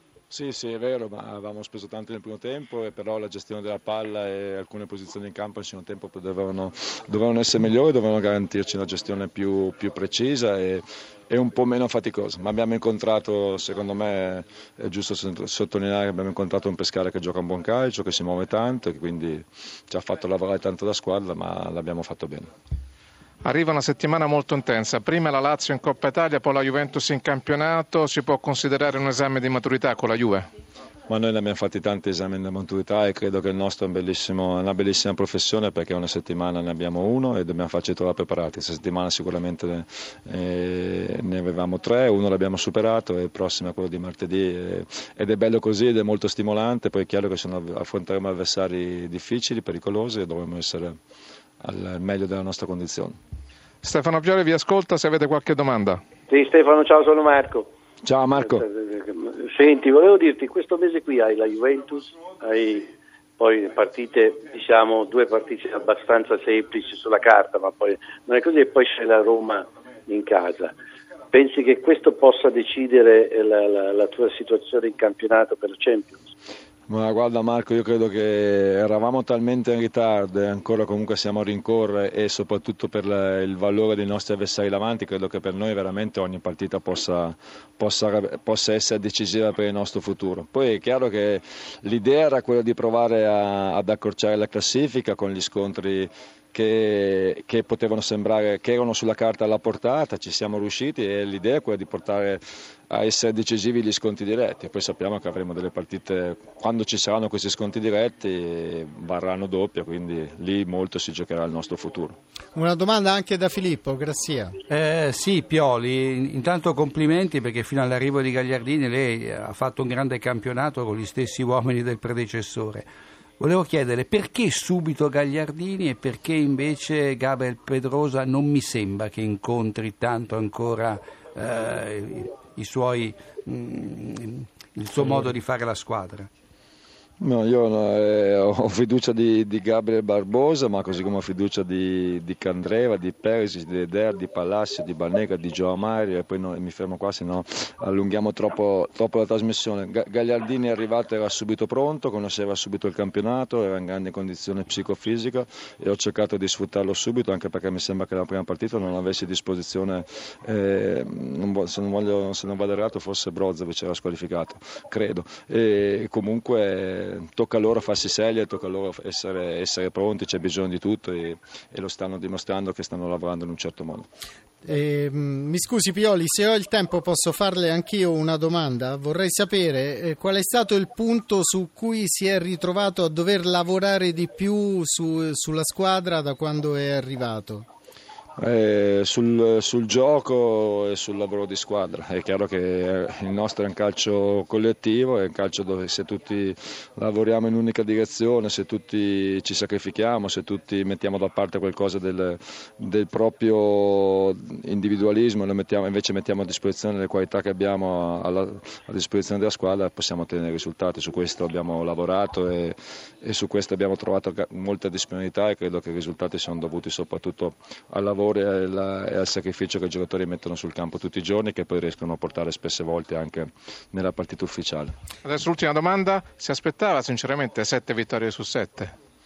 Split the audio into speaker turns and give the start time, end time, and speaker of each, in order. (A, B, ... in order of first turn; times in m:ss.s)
0:00.3-0:22.5 A
0:23.4-0:30.4 B
0:31.1-0:50.9 A
0:51.6-0:53.2 A
0:53.8-0:56.0 B
0:56.3-0:57.6 C
0:58.0-0:58.7 A
0:58.5-1:10.7 C
1:11.3-1:16.2 C
1:16.9-1:52.2 A
1:52.5-1:54.6 D
1:54.7-2:16.3 E
2:17.2-2:54.1 A
2:54.6-3:07.7 D
3:08.4-3:44.9 A
3:45.2-3:48.9 B